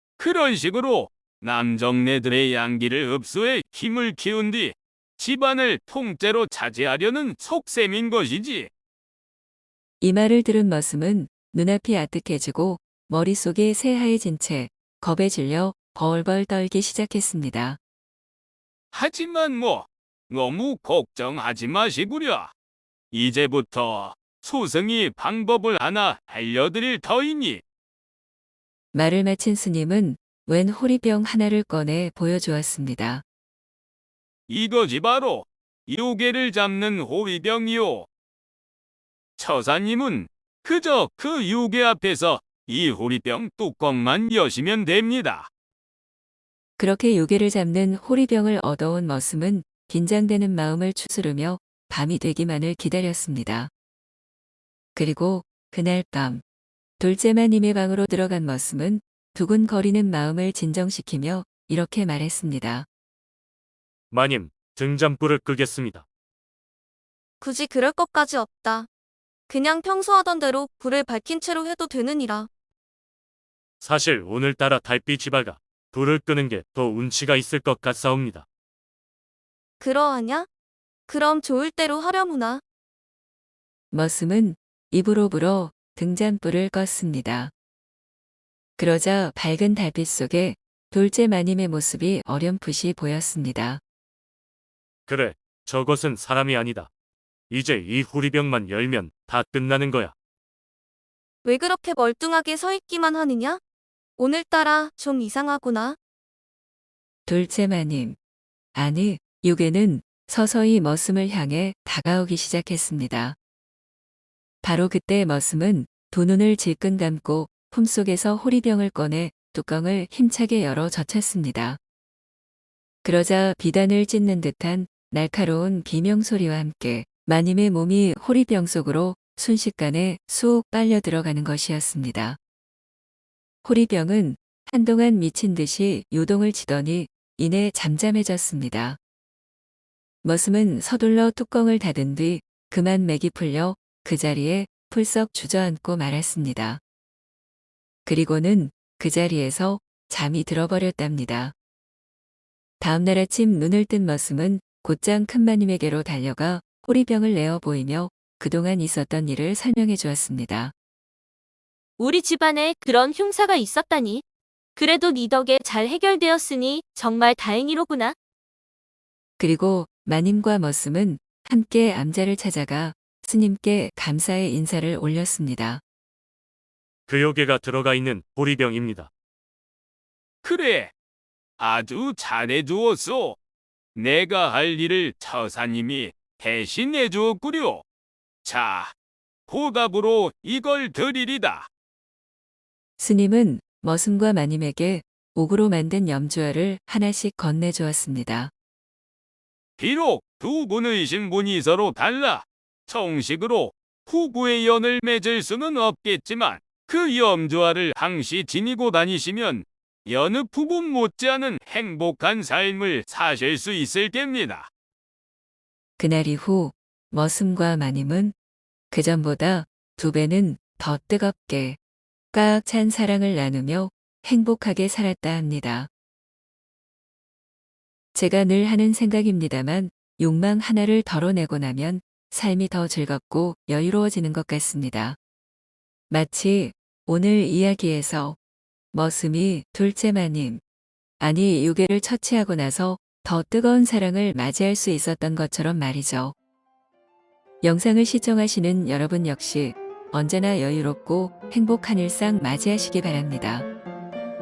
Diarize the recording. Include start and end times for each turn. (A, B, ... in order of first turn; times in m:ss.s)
0:00.2-0:08.7 A
0:10.0-0:17.8 B
0:18.9-0:22.5 A
0:23.1-0:27.6 A
0:28.9-0:33.2 B
0:34.5-0:38.1 A
0:39.4-0:45.5 A
0:46.8-0:53.7 B
0:54.9-0:56.4 B
0:57.0-1:02.9 B
1:04.1-1:06.1 C
1:07.4-1:08.9 D
1:09.5-1:12.5 D
1:13.8-1:18.5 C
1:19.8-1:20.5 D
1:21.1-1:22.6 D
1:23.9-1:27.5 B
1:28.8-1:33.8 B
1:35.1-1:36.9 C
1:37.5-1:40.1 C
1:41.4-1:43.6 D
1:44.2-1:46.0 D
1:47.3-1:48.2 B
1:48.7-1:53.4 B
1:54.6-2:01.8 B
2:03.0-2:12.4 B
2:13.6-2:19.0 B
2:20.2-2:26.8 B
2:28.0-2:31.5 B
2:32.8-2:40.7 B
2:42.0-2:44.2 E
2:44.8-2:48.1 E
2:45.9-2:46.6 D
2:49.4-2:55.8 B
2:57.1-2:59.1 C
3:00.4-3:00.9 A
3:01.6-3:03.4 A
3:04.0-3:07.8 A
3:08.4-3:08.9 A
3:09.5-3:11.7 A
3:13.0-3:18.5 B
3:19.8-3:34.7 A
3:36.0-3:38.4 B
3:38.9-3:41.8 B
3:42.3-3:45.9 B
3:48.1-3:55.2 B
3:56.1-3:58.4 B
3:58.9-4:00.6 B
4:01.2-4:06.4 B
4:07.6-4:13.6 B